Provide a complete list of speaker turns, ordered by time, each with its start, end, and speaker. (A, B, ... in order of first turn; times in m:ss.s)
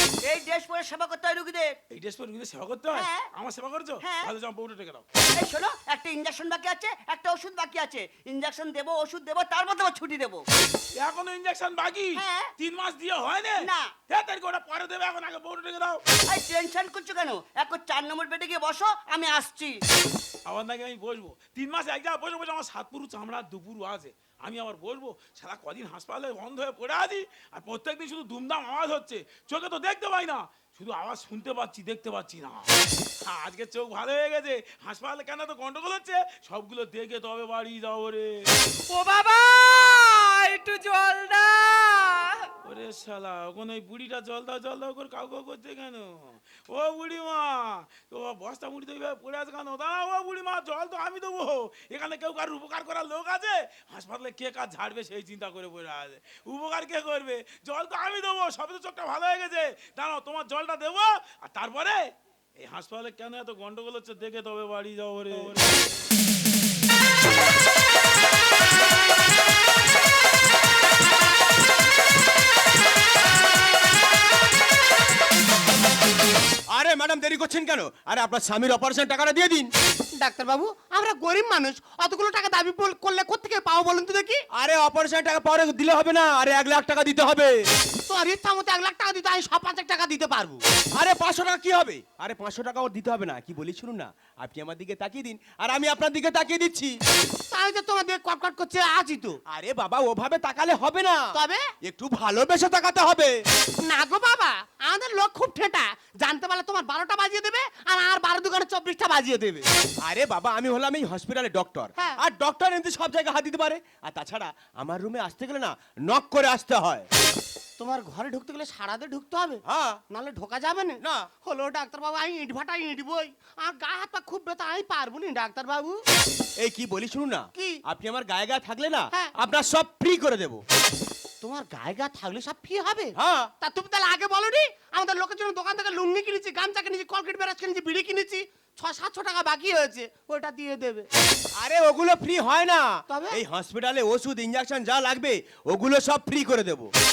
0:00.2-0:01.8 A
0:01.9-0:05.0 B
0:02.9-0:03.3 A
0:04.0-0:04.3 A
0:05.3-0:10.4 A
0:10.9-0:16.0 B
0:12.2-0:12.5 A
0:13.6-0:13.9 A
0:16.3-0:19.8 A
0:20.4-0:32.7 B
0:33.2-0:38.5 B
0:38.9-0:42.4 C
0:42.6-1:02.0 B
1:02.6-1:05.8 B
1:16.7-1:19.7 D
1:20.2-1:24.4 E
1:24.5-1:27.6 D
1:28.1-1:30.6 E
1:31.0-1:37.0 D
1:37.5-1:39.4 E
1:39.5-1:43.4 D
1:41.3-1:41.6 E
1:43.8-1:49.6 E
1:50.0-1:57.1 D
1:57.8-2:06.0 E
1:59.6-2:00.0 D
2:01.0-2:01.3 D
2:06.6-2:10.6 D
2:07.5-2:07.8 E
2:11.4-2:21.1 E
2:13.2-2:13.5 D
2:21.6-2:26.9 D
2:23.1-2:23.4 E